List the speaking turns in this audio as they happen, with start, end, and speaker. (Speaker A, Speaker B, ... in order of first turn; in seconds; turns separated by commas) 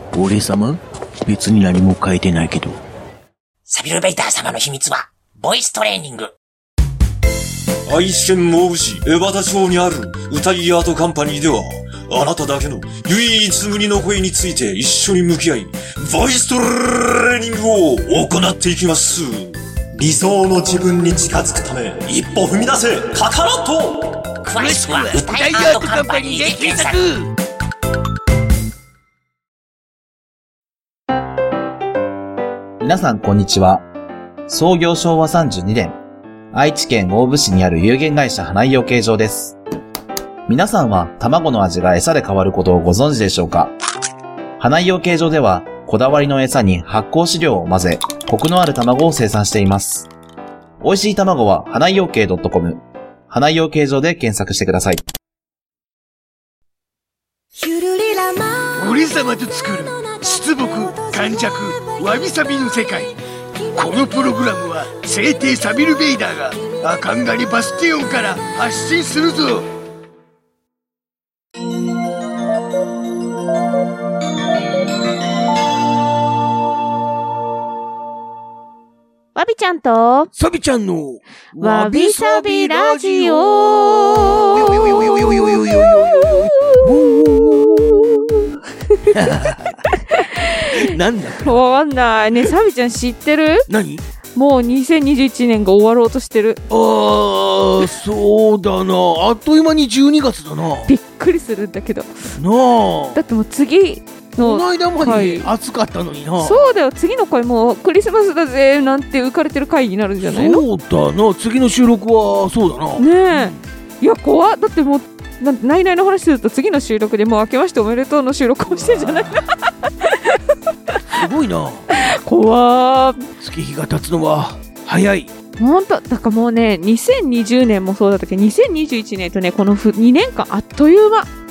Speaker A: 0.1-2.8, Speaker B: 3.7-6.3, Speaker C: 7.9-24.2, Speaker B: 24.4-27.0, Speaker D: 24.6-27.3, Speaker E: 32.8-33.8, Speaker E: 34.5-36.0, Speaker E: 36.5-39.6, Speaker E: 40.5-43.7, Speaker E: 44.6-50.1, Speaker E: 50.8-55.0, Speaker D: 57.6-69.7, Speaker F: 79.3-80.3, Speaker D: 80.3-88.0, Speaker F: 81.6-86.8, Speaker F: 87.5-88.4, Speaker F: 89.0-89.3, Speaker D: 89.1-89.8, Speaker F: 89.9-90.7, Speaker D: 90.7-91.5, Speaker F: 91.4-93.7, Speaker D: 93.7-94.0, Speaker F: 94.3-96.6, Speaker D: 96.7-100.9, Speaker F: 100.8-102.2, Speaker D: 102.3-103.2, Speaker F: 103.1-105.5, Speaker D: 104.4-106.6, Speaker F: 106.4-110.6, Speaker D: 110.2-113.6, Speaker F: 113.0-121.0, Speaker D: 118.7-119.4, Speaker D: 121.1-121.9, Speaker F: 121.9-123.2, Speaker D: 123.4-125.3, Speaker F: 125.6-131.3